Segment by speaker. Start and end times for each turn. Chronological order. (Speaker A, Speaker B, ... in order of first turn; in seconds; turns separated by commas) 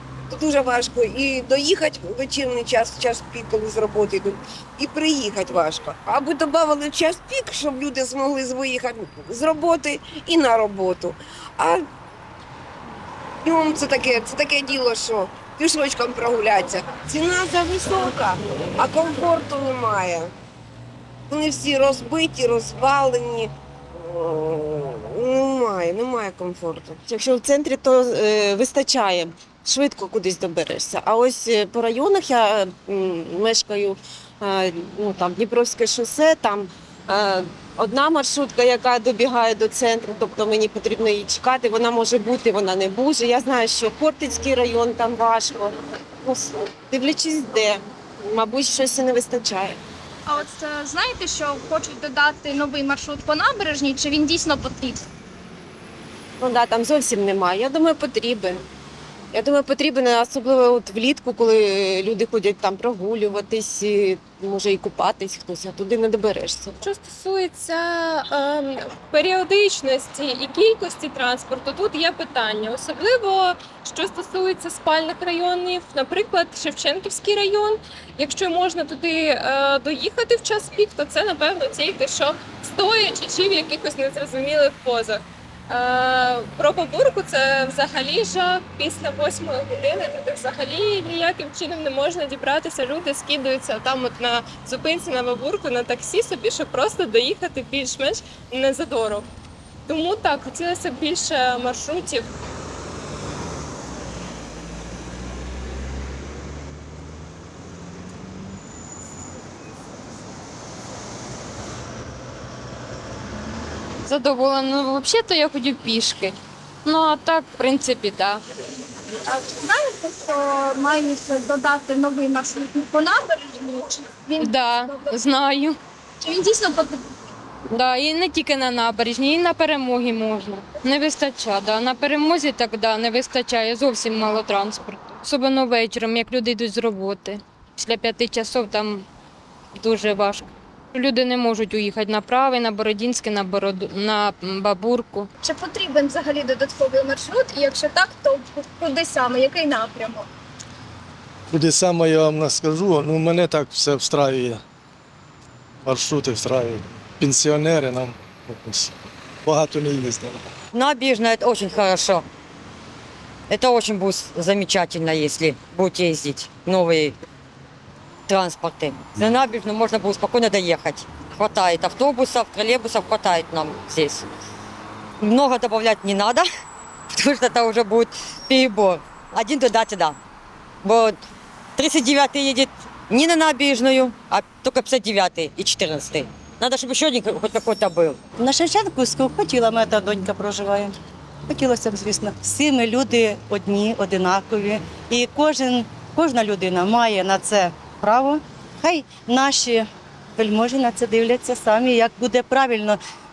Speaker A: 0.3-11.8, Speaker A: 13.4-20.3, Speaker A: 21.3-27.0, Speaker B: 27.1-49.8, Speaker C: 50.2-55.0, Speaker B: 56.4-58.6, Speaker B: 59.3-66.8, Speaker D: 66.8-99.3, Speaker D: 99.9-102.3, Speaker E: 114.0-118.4, Speaker C: 119.1-125.1, Speaker E: 124.4-125.8, Speaker C: 126.2-127.0, Speaker E: 127.7-139.1, Speaker E: 139.8-145.3, Speaker C: 145.4-150.3, Speaker F: 151.5-154.6, Speaker F: 155.8-158.9, Speaker F: 159.4-160.4, Speaker G: 160.7-162.2, Speaker G: 163.5-167.2, Speaker G: 168.3-174.3, Speaker G: 175.2-176.4, Speaker G: 177.1-180.2, Speaker G: 180.8-181.2, Speaker G: 181.8-188.2, Speaker H: 188.4-190.9, Speaker H: 191.5-203.0